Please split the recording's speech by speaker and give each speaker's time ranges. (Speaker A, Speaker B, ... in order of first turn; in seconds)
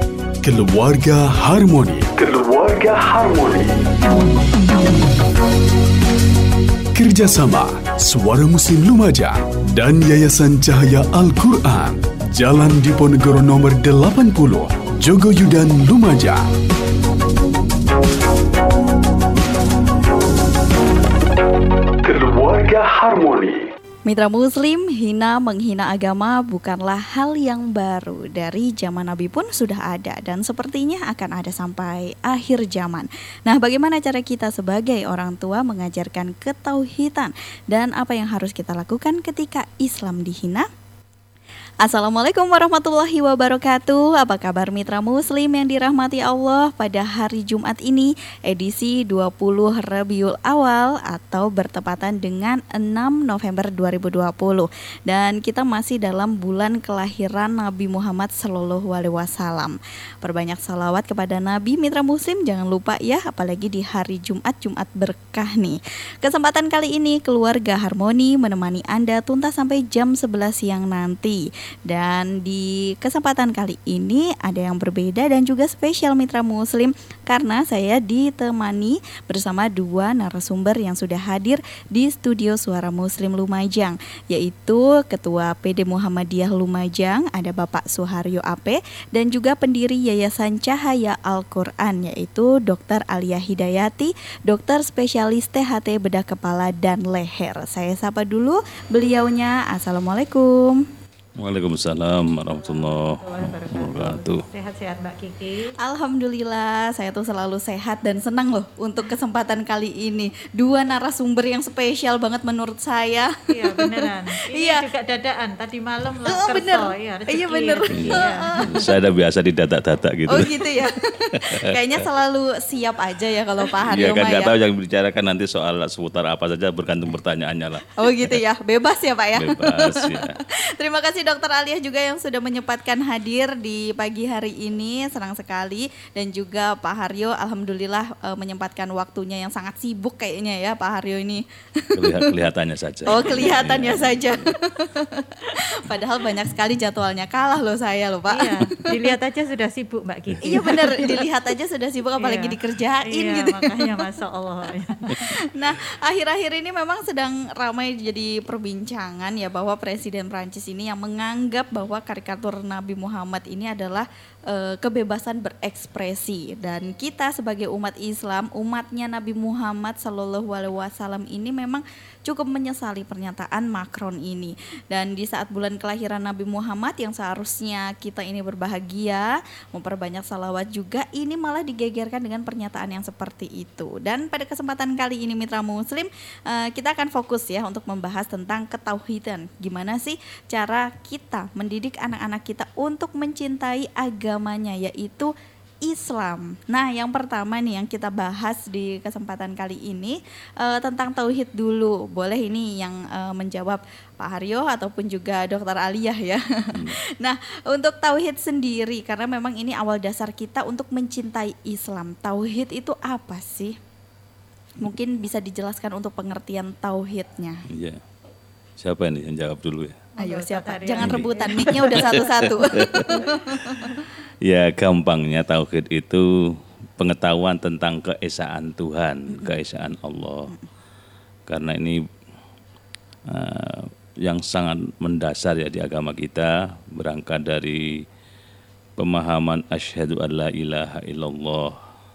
Speaker A: 0.4-3.9, 7.0-16.5, 22.0-23.7
Speaker B: 24.1-40.7, 41.8-100.9, 105.8-114.8, 116.3-118.9, 120.3-124.5, 128.0-142.4, 143.1-149.0, 150.4-154.1, 155.1-195.3, 195.8-213.8, 214.8-217.6, 220.2-224.0
Speaker C: 101.4-104.4, 117.9-120.7, 121.4-122.1, 123.8-128.4, 129.4-130.4, 142.0-144.5, 217.7-218.0, 218.8-220.1, 221.0-223.9, 224.4-230.5, 231.5-232.0, 233.3-237.9, 239.0-241.8
Speaker D: 102.5-105.7, 113.5-118.6, 148.3-151.2, 152.2-155.2, 220.2-222.3